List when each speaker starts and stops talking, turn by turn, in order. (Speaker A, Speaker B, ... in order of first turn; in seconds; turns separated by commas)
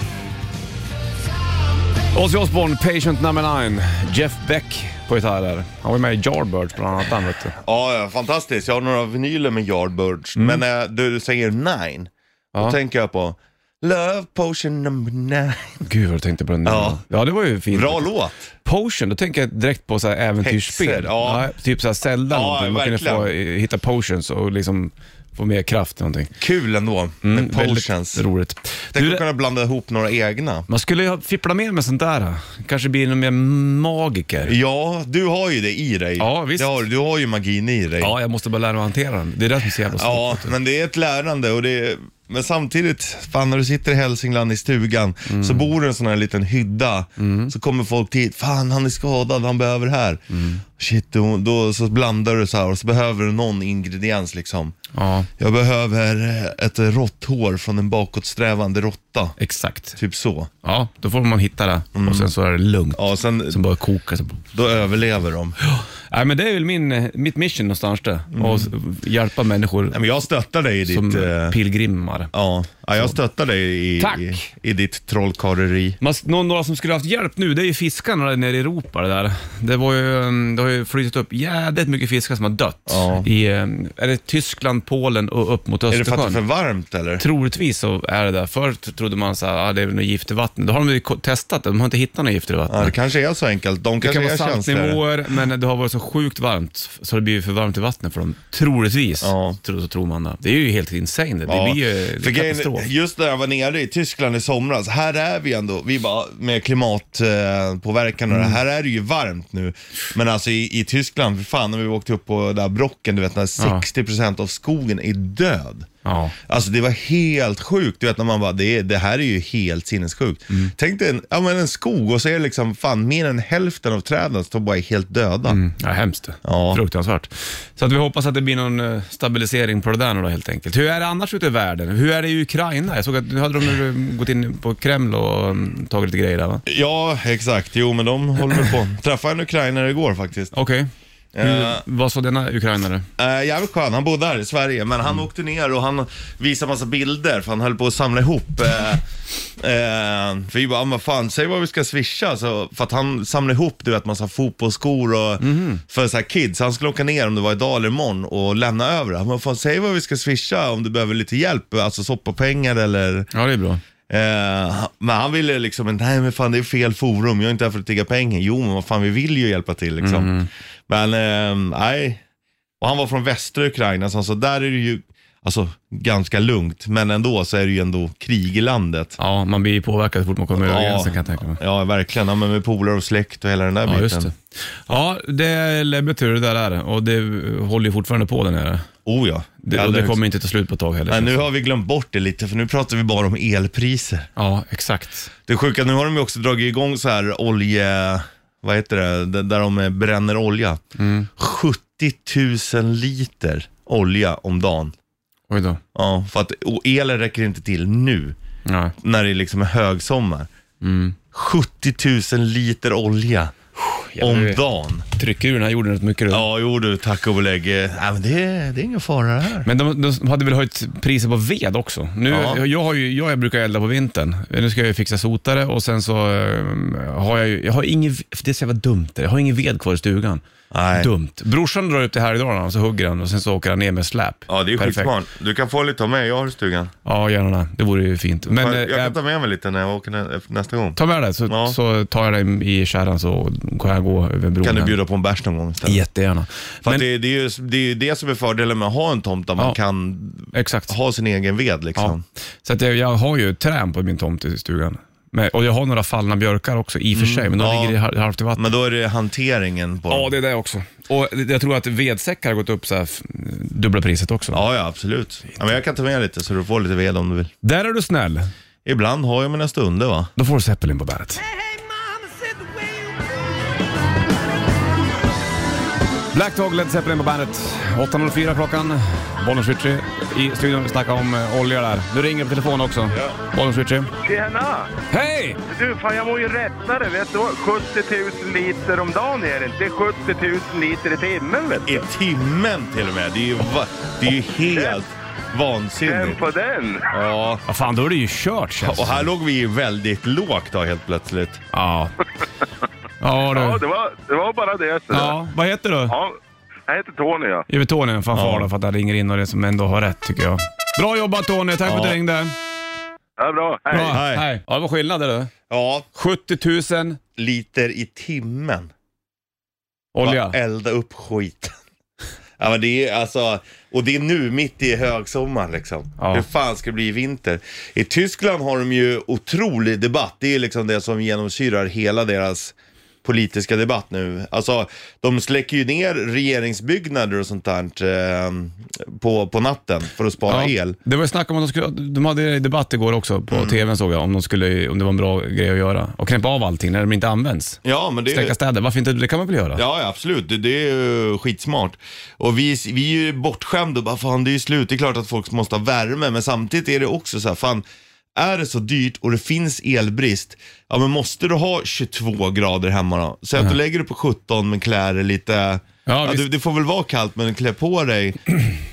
Speaker A: 2.1-7.6, Speaker B: 7.6-15.8, Speaker A: 10.4-10.6, Speaker A: 15.8-18.1, Speaker B: 16.6-17.0, Speaker B: 17.7-18.5, Speaker A: 18.6-26.3, Speaker B: 20.4-21.5, Speaker B: 22.3-23.3, Speaker B: 26.4-28.3, Speaker A: 27.2-29.2, Speaker B: 28.9-30.7, Speaker A: 30.7-34.6, Speaker B: 34.5-38.2, Speaker A: 36.2-36.8, Speaker A: 38.0-40.5, Speaker B: 39.9-54.8, Speaker A: 45.3-45.7, Speaker A: 47.2-47.5, Speaker A: 50.3-50.6, Speaker A: 54.9-55.3, Speaker B: 55.4-59.4, Speaker A: 59.4-60.0, Speaker B: 60.0-60.5, Speaker A: 60.6-64.4, Speaker B: 62.0-62.3, Speaker B: 63.0-63.6, Speaker B: 64.5-65.6, Speaker A: 65.7-70.0, Speaker B: 68.3-68.7, Speaker B: 69.9-71.6, Speaker A: 70.9-72.3, Speaker B: 72.3-76.0, Speaker A: 74.0-74.5, Speaker A: 76.0-86.4, Speaker B: 82.9-83.3, Speaker B: 85.9-87.2, Speaker A: 87.2-93.0, Speaker B: 92.7-95.0, Speaker A: 94.0-102.9, Speaker B: 99.2-99.6, Speaker B: 101.5-115.9, Speaker A: 108.3-108.6, Speaker A: 113.6-113.8, Speaker A: 116.0-116.3, Speaker B: 116.5-125.6, Speaker A: 125.5-136.6, Speaker B: 126.4-126.8, Speaker B: 136.7-140.5, Speaker A: 140.5-143.1, Speaker B: 141.3-141.8, Speaker B: 143.2-149.0, Speaker B: 149.6-163.3, Speaker A: 155.4-155.8, Speaker A: 163.3-163.8, Speaker B: 164.1-170.3, Speaker A: 170.0-170.5, Speaker B: 170.9-172.2, Speaker B: 172.8-179.2, Speaker A: 179.2-181.6, Speaker B: 180.6-184.3, Speaker A: 183.9-188.9, Speaker B: 189.1-190.2, Speaker A: 189.6-191.5, Speaker B: 191.1-194.3, Speaker A: 194.4-195.3, Speaker B: 195.5-200.8, Speaker A: 201.0-201.3, Speaker B: 201.4-204.9, Speaker A: 205.5-205.8, Speaker B: 205.9-208.4, Speaker A: 208.7-208.9, Speaker B: 209.0-210.5, Speaker A: 210.8-211.2, Speaker B: 211.3-213.5, Speaker A: 213.8-216.5, Speaker B: 214.2-215.1, Speaker B: 216.3-219.7, Speaker A: 219.6-230.4, Speaker B: 222.3-222.6, Speaker B: 230.7-231.1, Speaker A: 230.9-235.1, Speaker B: 234.5-236.9, Speaker A: 237.1-239.2, Speaker B: 238.5-241.8, Speaker A: 241.0-245.0, Speaker B: 244.6-246.0, Speaker A: 245.8-247.1, Speaker B: 246.8-252.2, Speaker A: 250.5-250.9, Speaker A: 252.0-258.7, Speaker B: 257.1-258.0, Speaker B: 258.6-260.3, Speaker A: 260.1-264.6, Speaker B: 264.5-267.5, Speaker A: 267.6-268.5, Speaker B: 268.9-270.3, Speaker A: 270.4-271.4, Speaker A: 276.3-284.1, Speaker C: 284.2-284.9, Speaker A: 285.1-285.6, Speaker C: 285.7-292.1, Speaker B: 291.9-296.4, Speaker C: 294.6-295.0, Speaker C: 296.0-297.1, Speaker B: 297.1-297.6, Speaker A: 297.7-299.3, Speaker B: 298.8-301.6, Speaker A: 301.7-302.1, Speaker A: 303.2-303.8, Speaker C: 303.5-305.4, Speaker A: 305.1-306.1, Speaker C: 306.1-307.7, Speaker A: 307.7-312.5, Speaker B: 308.3-308.7, Speaker B: 311.8-312.2, Speaker C: 313.4-314.2, Speaker A: 313.9-315.5, Speaker B: 314.1-314.4, Speaker B: 315.7-316.1, Speaker A: 316.1-317.2, Speaker B: 317.4-318.9, Speaker A: 320.1-320.6, Speaker B: 320.2-321.8, Speaker B: 322.6-341.0, Speaker A: 326.2-326.5, Speaker A: 340.5-347.8, Speaker B: 343.5-343.8, Speaker B: 347.9-348.6, Speaker A: 348.3-349.8, Speaker B: 349.8-357.8, Speaker B: 358.4-368.4, Speaker A: 366.1-366.5